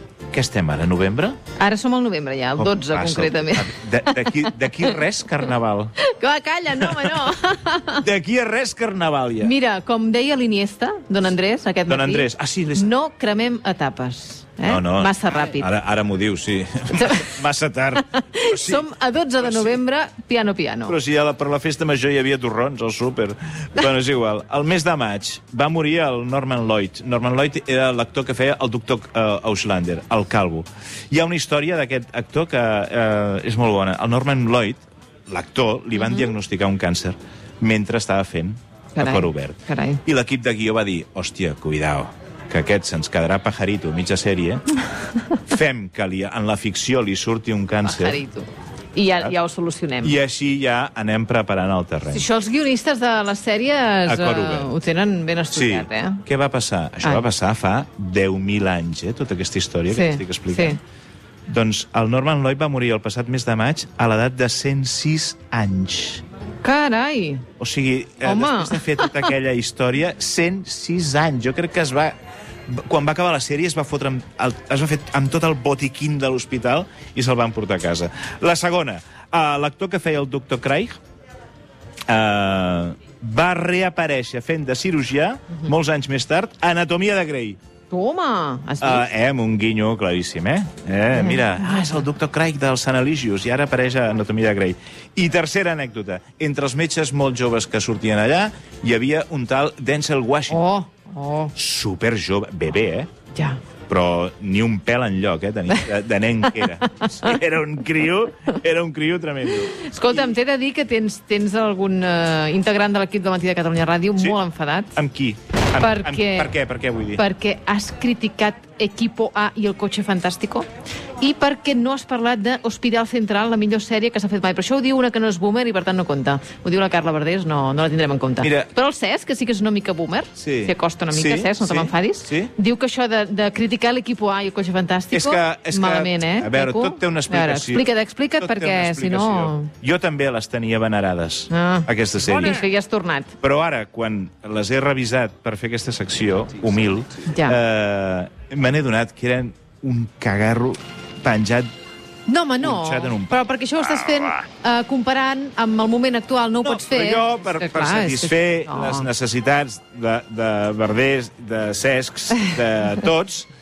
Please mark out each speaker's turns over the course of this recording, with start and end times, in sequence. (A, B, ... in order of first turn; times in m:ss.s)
0:00.3-0:01.4 A
0:01.6-0:05.0 B
0:02.6-0:06.0 A
0:06.0-0:08.0 B
0:06.8-0:07.3 A
0:08.0-0:09.5 A
0:09.4-0:15.7 B
0:11.9-0:12.8 A
0:14.6-0:18.9 A
0:17.0-0:17.3 B
0:18.1-0:21.0 B
0:19.4-0:19.8 A
0:20.8-0:44.7 A
0:35.9-0:36.3 B
0:39.0-0:40.0 B
0:45.4-0:48.2 A
0:47.8-0:50.2 B
0:50.0-0:52.2 A
0:52.1-0:56.2 B
0:54.0-0:54.7 A
0:55.5-1:00.8 A
0:59.9-1:00.8 B
1:01.5-1:06.2 A
1:06.6-1:07.4 B
1:07.6-1:12.1 A
1:08.2-1:09.3 B
1:12.7-1:21.0 A
1:22.1-1:27.6 A
1:27.9-1:29.1 B
1:28.8-1:40.6 A
1:31.1-1:32.0 B
1:40.5-1:41.5 B
1:41.6-1:43.1 A
1:43.3-1:43.6 B
1:43.9-1:50.3 A
1:49.8-1:55.0 B
1:54.9-1:57.2 A
1:55.8-1:56.5 B
1:57.1-2:00.7 B
2:01.2-2:19.7 B
2:08.4-2:08.7 A
2:10.4-2:12.5 A
2:15.1-2:17.9 A
2:18.4-2:22.6 A
2:21.5-2:23.3 B
2:23.4-2:31.7 A
2:27.3-2:27.6 B
2:32.3-2:39.1 B
2:32.6-2:33.4 A
2:34.0-2:34.3 A
2:36.6-2:43.5 A